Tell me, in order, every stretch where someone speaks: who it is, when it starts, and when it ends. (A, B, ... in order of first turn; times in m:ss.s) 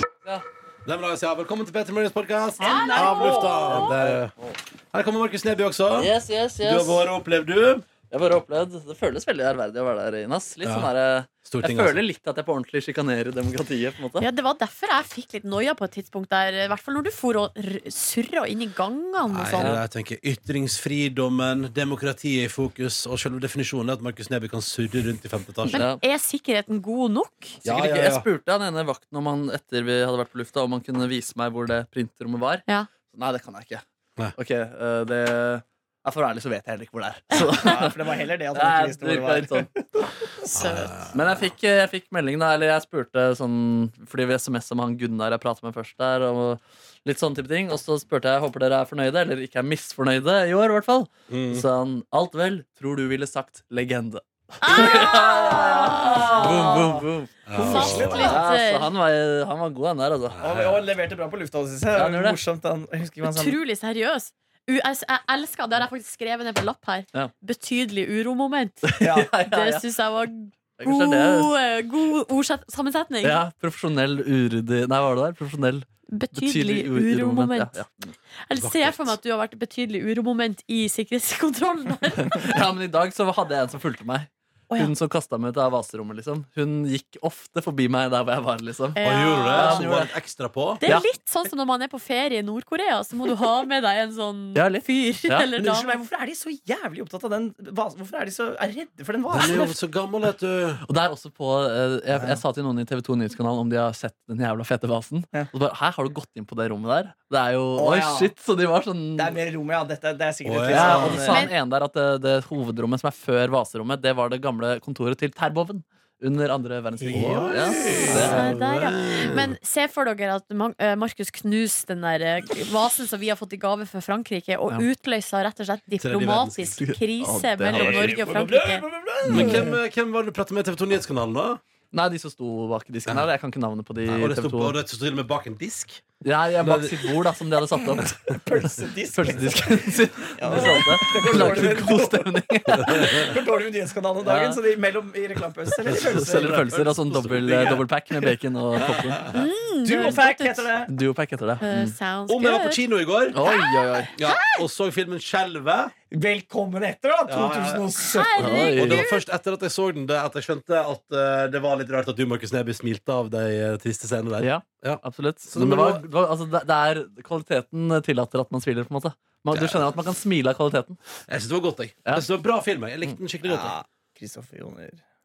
0:00.8-0:04.3 A
0:02.6-0:03.9 B
0:02.6-0:04.0 C
0:03.7-0:04.5 D
0:04.9-0:07.9 A
0:05.9-0:07.1 D
0:08.1-0:14.2 D
0:10.6-0:10.9 A
0:11.4-0:12.0 A
0:14.2-0:19.7 B
0:19.3-0:25.8 A
0:25.7-0:27.6 B
0:25.7-0:26.0 D
0:27.6-0:28.3 A
0:27.6-0:33.8 D
0:34.3-0:39.7 D
0:37.3-0:37.7 B
0:37.4-0:40.0 C
0:40.5-0:41.3 A
0:40.5-0:40.9 B
0:41.1-1:00.4 D
0:51.3-0:51.6 A
0:54.6-0:57.0 B
0:54.7-0:58.4 C
0:57.5-0:58.4 A
0:57.6-0:58.9 B
1:00.3-1:00.9 A
1:00.4-1:03.6 C
1:01.9-1:02.4 D
1:03.2-1:13.4 B
1:08.8-1:09.8 D
1:09.0-1:09.3 C
1:10.8-1:11.5 D
1:13.2-1:18.1 D
1:16.1-1:17.8 B
1:18.4-1:22.5 B
1:18.6-1:19.1 A
1:22.2-1:30.1 D
1:29.0-1:29.9 B
1:29.0-1:30.8 A
1:30.8-1:36.0 B
1:34.5-1:35.5 D
1:35.6-1:39.8 C
1:39.3-1:40.8 A
1:40.8-1:49.4 D
1:42.1-1:42.4 C
1:47.8-1:48.3 C
1:49.2-1:51.4 C
1:50.4-1:51.2 A
1:50.7-1:58.5 D
1:51.3-1:51.5 B
1:57.0-1:58.4 C
1:57.1-1:59.5 A
1:57.8-2:09.6 B
2:06.0-2:06.8 A
2:06.8-2:08.2 D
2:07.7-2:11.6 A
2:08.1-2:08.5 C
2:09.3-2:09.7 D
2:09.3-2:09.6 C
2:11.9-2:14.7 D
2:14.0-2:16.1 A
2:16.2-2:23.4 D
2:16.6-2:17.1 A
2:18.2-2:22.1 C
2:20.5-2:23.4 A
2:22.7-2:26.6 C
2:24.2-2:24.6 D
2:25.7-2:29.3 D
2:25.9-2:27.8 A
2:28.8-2:29.4 A
2:29.3-2:30.7 B
2:29.8-2:30.9 C
2:30.9-2:31.9 D
2:31.6-2:32.8 B
2:32.3-2:33.4 A
2:33.3-2:34.1 D
2:33.3-2:34.6 B
2:34.2-2:35.9 A
2:36.1-2:38.6 C
2:37.3-2:37.8 A
2:38.1-2:39.2 B
2:38.4-2:39.1 D
2:38.4-2:46.0 A
2:44.4-2:51.0 D
2:49.5-2:49.9 A
2:51.3-2:53.7 A
2:53.4-2:55.0 C